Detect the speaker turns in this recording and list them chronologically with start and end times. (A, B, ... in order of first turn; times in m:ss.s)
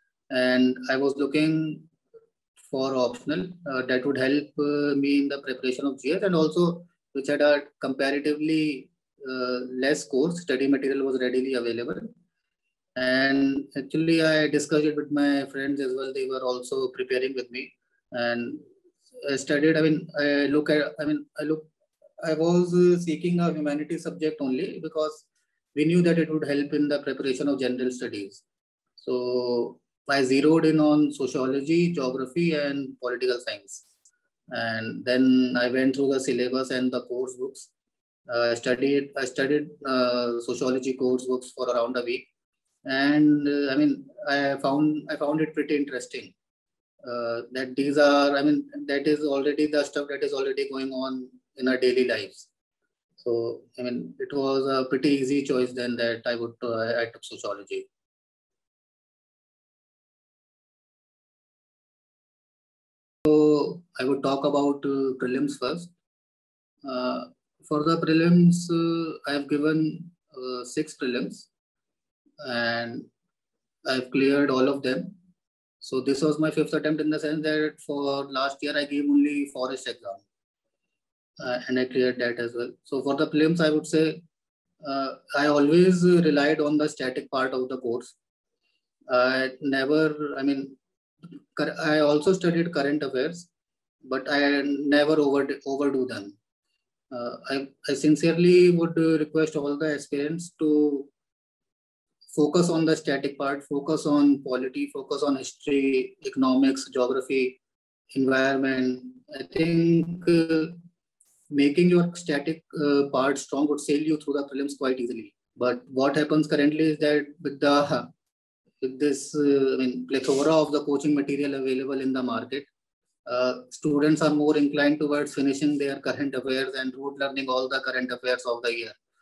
0:00.3-0:01.9 A
0:02.7-0:12.0 A
0:13.0-0:18.6 A
0:19.2-0:21.7 A
0:22.2-0:28.4 A
0:29.0-0:33.8 A
0:34.5-0:37.7 A
0:38.3-0:42.2 A
0:42.8-0:46.3 A
0:47.0-0:52.5 A
0:53.2-0:57.9 A
1:03.3-1:05.9 A
1:06.8-1:11.5 A
1:12.4-1:13.1 A
1:13.8-1:15.1 A
1:15.8-1:20.2 A
1:21.4-1:24.2 A
1:24.8-1:28.2 A
1:29.1-1:30.8 A
1:31.6-1:33.5 A
1:34.0-1:36.4 A
1:37.1-1:41.1 A
1:42.3-1:47.6 A
1:48.1-1:50.8 A
1:51.5-1:58.1 A
1:58.8-2:02.7 A
2:03.3-2:09.0 A